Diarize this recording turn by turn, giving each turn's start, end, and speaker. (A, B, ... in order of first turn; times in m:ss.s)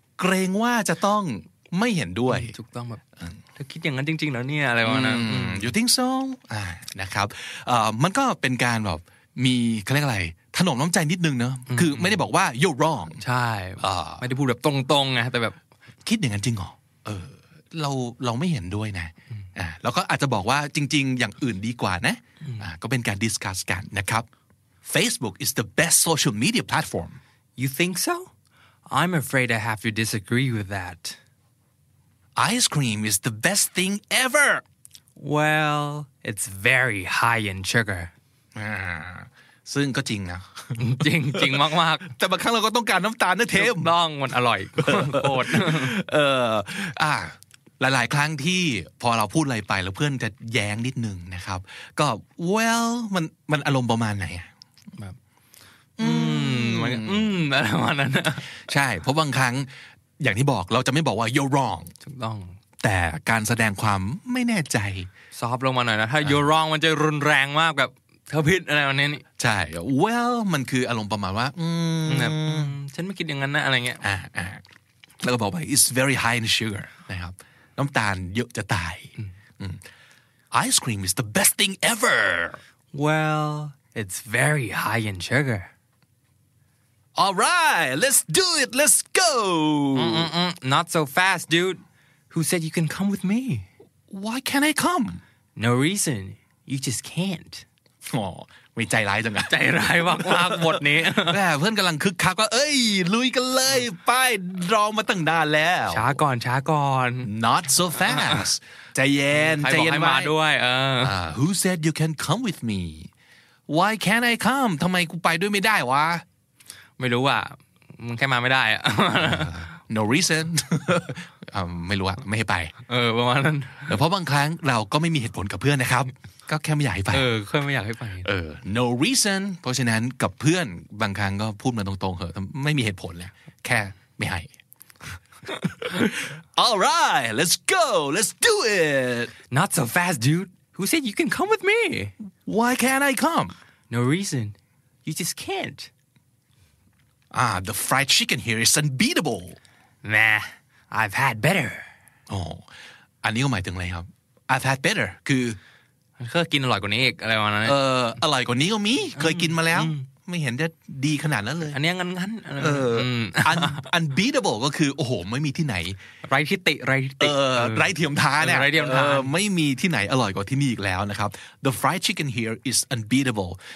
0:00.2-0:02.5 A
0:02.3-0:03.0 B
0:03.6-0:05.7 B
0:04.8-0:13.2 A
0:11.7-0:12.2 B
0:13.2-0:15.6 B
0:13.8-0:14.2 A
0:16.0-0:24.3 A
0:24.8-0:27.2 A
0:27.6-0:28.3 B
0:28.9-0:31.2 B
0:32.4-0:34.6 A
0:35.2-0:38.1 B
0:38.5-0:43.9 A
0:40.8-0:42.1 B
0:43.5-0:45.9 B
0:44.8-0:54.5 A
0:56.0-0:57.3 A
0:56.0-0:58.5 B
0:58.5-1:01.9 A
1:02.0-1:02.6 B
1:02.8-1:05.1 A
1:05.3-1:09.2 B
1:09.4-1:12.7 A
1:12.1-1:14.0 B
1:14.0-1:14.6 A
1:15.2-1:19.8 A
1:20.5-1:22.6 A
1:22.9-1:25.7 B
1:27.2-1:30.3 A
1:29.9-1:33.6 B
1:34.1-1:35.2 A
1:35.6-1:37.6 B
1:38.1-1:46.2 A
1:39.5-1:41.4 B
1:45.9-1:47.3 B
1:47.2-1:50.3 A
1:48.0-1:48.4 B
1:49.3-1:51.1 B
1:51.0-1:53.1 A
1:53.7-1:56.2 A
1:57.0-1:59.6 B
1:59.2-2:02.7 A
2:02.9-2:03.9 B
2:03.9-2:07.3 A
2:07.1-2:08.3 B
2:08.2-2:14.5 A
2:15.6-2:19.3 A
2:19.5-2:22.1 B
2:22.4-2:23.5 A
2:23.9-2:25.9 B
2:27.3-2:29.6 A
2:30.0-2:31.9 B
2:32.3-2:32.6 A
2:33.2-2:35.6 A
2:36.2-2:37.8 B
2:37.6-2:41.8 A
2:39.2-2:40.1 B
2:41.7-2:43.8 B
2:42.6-2:46.0 A
2:46.2-2:49.3 B
2:47.2-2:53.6 A